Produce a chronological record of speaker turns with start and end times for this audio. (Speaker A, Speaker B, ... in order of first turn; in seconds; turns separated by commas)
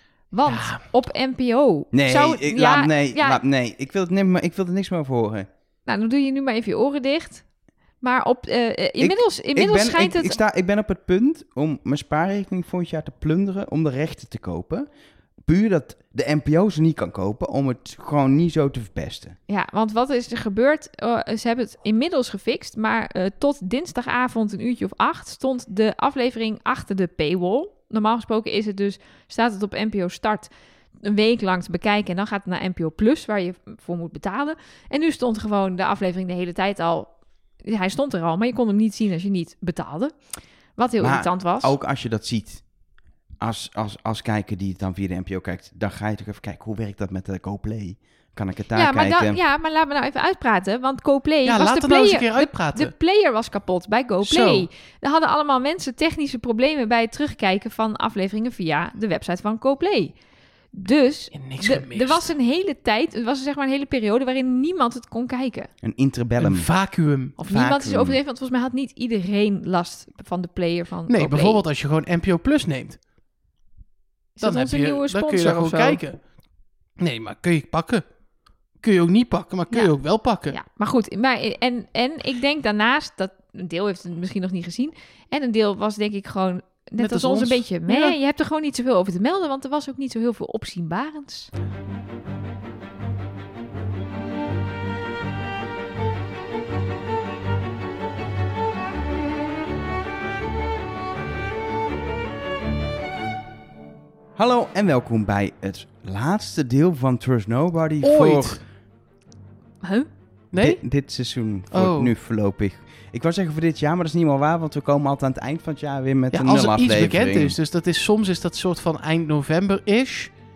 Speaker A: 0.3-3.4, Speaker B: 0.5-0.8, Speaker C: 1.9-5.5, Speaker A: 5.9-7.4, Speaker A: 8.0-10.4, Speaker C: 9.0-14.9, Speaker C: 15.4-19.4, Speaker A: 19.5-30.5, Speaker A: 31.0-37.1, Speaker A: 37.6-40.1, Speaker A: 40.8-41.8, Speaker C: 41.0-42.6, Speaker C: 43.4-49.4, Speaker A: 48.8-60.1, Speaker B: 51.5-53.0, Speaker B: 54.2-54.7, Speaker A: 60.7-65.7, Speaker B: 61.3-62.3, Speaker C: 65.8-66.7, Speaker B: 66.4-67.3, Speaker A: 67.4-71.6, Speaker C: 67.4-68.2, Speaker B: 71.1-73.0, Speaker A: 74.4-76.0, Speaker B: 74.4-76.2, Speaker B: 77.0-78.0, Speaker B: 78.8-80.6, Speaker A: 80.5-91.5, Speaker B: 87.0-88.2, Speaker C: 104.4-108.6, Speaker B: 108.0-108.6, Speaker A: 109.8-110.1, Speaker B: 110.5-110.8, Speaker C: 110.5-117.6, Speaker B: 111.7-112.1, Speaker B: 116.3-120.3